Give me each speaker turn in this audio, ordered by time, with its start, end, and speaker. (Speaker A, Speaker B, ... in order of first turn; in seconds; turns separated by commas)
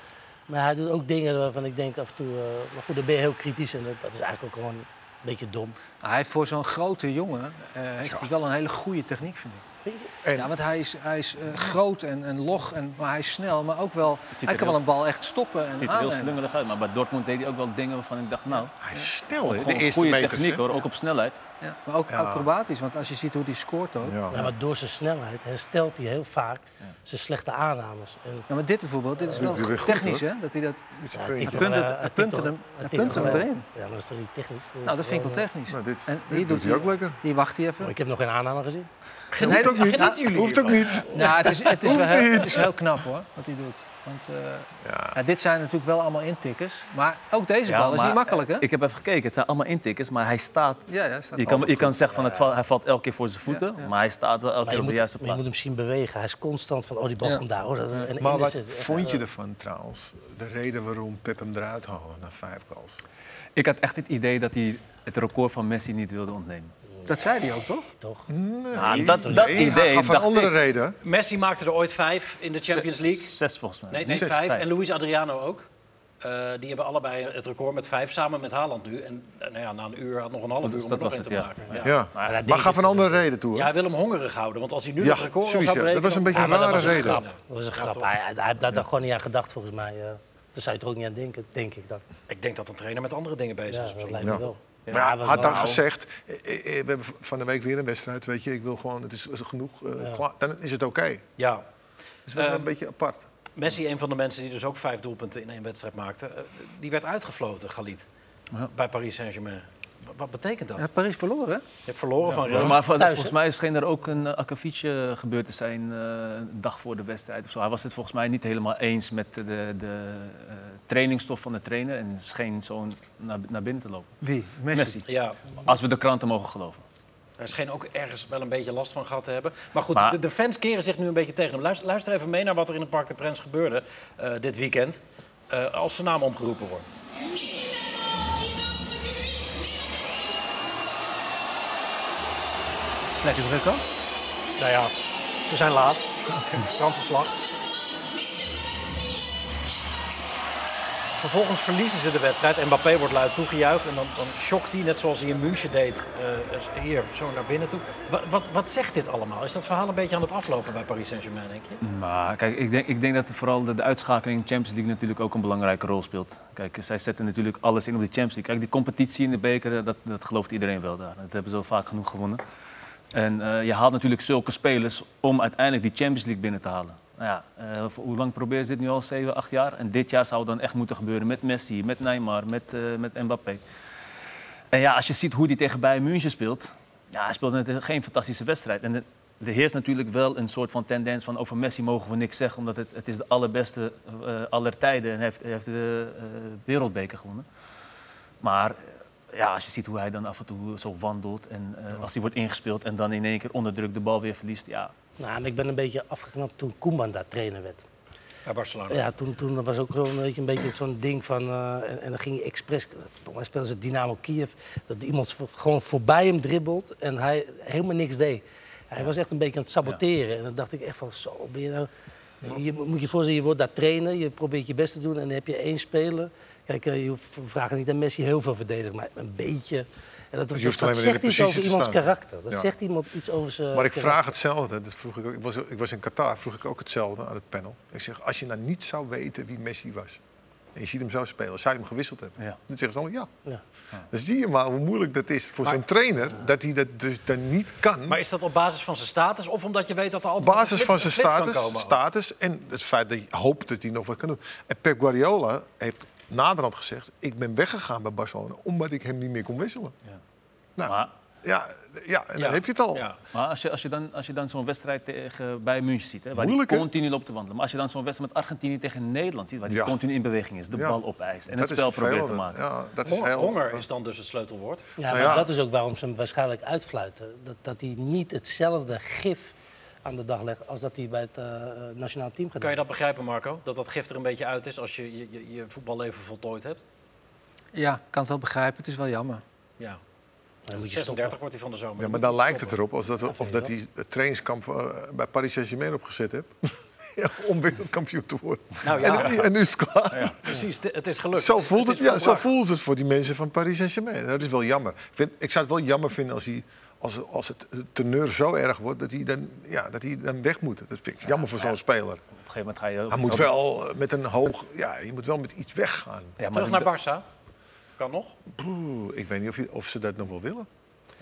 Speaker A: 0.5-5.8, Speaker B: 6.0-9.6, Speaker A: 9.8-10.1, Speaker C: 10.2-10.5, Speaker B: 10.4-16.4, Speaker D: 14.4-14.8, Speaker D: 15.8-18.7, Speaker C: 18.8-20.7, Speaker D: 19.4-21.4, Speaker B: 21.6-24.2, Speaker C: 22.1-22.5, Speaker C: 24.0-24.5, Speaker A: 24.3-28.5, Speaker B: 28.5-30.8, Speaker A: 29.3-29.8, Speaker C: 29.3-30.2, Speaker C: 31.0-31.9, Speaker A: 31.1-35.5, Speaker B: 31.4-33.7, Speaker C: 33.0-33.5, Speaker B: 34.9-37.9, Speaker C: 35.7-37.2, Speaker A: 37.8-38.9, Speaker E: 39.3-41.0, Speaker C: 39.4-42.7, Speaker B: 39.4-40.2, Speaker B: 41.1-48.7, Speaker C: 44.8-45.2, Speaker D: 47.7-55.4, Speaker B: 50.9-51.8, Speaker C: 51.5-51.9, Speaker B: 53.5-53.9, Speaker A: 54.6-59.2, Speaker C: 58.2-63.0, Speaker D: 63.6-66.7, Speaker B: 67.1-67.9, Speaker A: 68.0-68.3, Speaker C: 68.3-71.0, Speaker D: 68.7-70.5, Speaker A: 68.8-69.8, Speaker E: 71.0-73.3, Speaker D: 72.7-74.7, Speaker E: 73.9-75.7, Speaker C: 74.1-74.3, Speaker E: 76.2-82.0, Speaker D: 80.6-82.3, Speaker C: 81.8-83.7, Speaker A: 82.2-83.3, Speaker E: 83.5-88.1, Speaker C: 85.0-87.2, Speaker A: 86.3-92.0, Speaker E: 92.3-95.8, Speaker A: 93.7-95.8, Speaker C: 94.2-101.2, Speaker E: 101.4-101.6, Speaker C: 102.3-103.3, Speaker E: 102.3-102.7, Speaker E: 103.6-108.1, Speaker E: 108.7-110.9, Speaker B: 110.8-111.6, Speaker E: 111.9-112.8, Speaker D: 112.3-124.1, Speaker A: 112.9-113.3, Speaker B: 124.2-125.0, Speaker D: 124.7-125.0, Speaker E: 125.1-125.4, Speaker D: 125.6-126.8, Speaker E: 127.4-136.9, Speaker B: 142.9-143.8, Speaker E: 144.6-144.9, Speaker E: 145.4-147.3, Speaker E: 151.2-161.8, Speaker D: 161.8-172.4, Speaker D: 173.1-183.6, Speaker D: 184.7-197.5, Speaker D: 198.4-204.9, Speaker A: 205.2-207.8, Speaker E: 208.5-209.0, Speaker A: 208.9-221.9, Speaker A: 222.4-234.3, Speaker C: 230.5-232.7, Speaker C: 233.7-240.2, Speaker C: 240.8-243.3, Speaker C: 244.1-248.2, Speaker E: 248.1-252.0, Speaker C: 250.4-259.9, Speaker C: 260.8-263.1, Speaker D: 260.9-261.1, Speaker E: 262.4-263.2, Speaker D: 263.3-272.6, Speaker C: 266.4-266.9, Speaker C: 269.7-270.0, Speaker C: 270.7-273.9, Speaker E: 273.1-274.9, Speaker A: 275.0-282.8, Speaker C: 275.1-275.5, Speaker E: 282.6-286.8, Speaker B: 287.7-289.4, Speaker A: 290.7-291.4, Speaker E: 290.9-292.8, Speaker C: 292.0-300.4, Speaker A: 293.3-293.7, Speaker E: 298.8-299.4, Speaker E: 300.4-302.5, Speaker C: 301.3-312.2, Speaker D: 311.3-311.8, Speaker D: 312.5-313.5, Speaker C: 313.1-316.4, Speaker D: 316.4-316.9, Speaker E: 316.5-317.2, Speaker E: 318.0-318.4, Speaker C: 318.5-320.7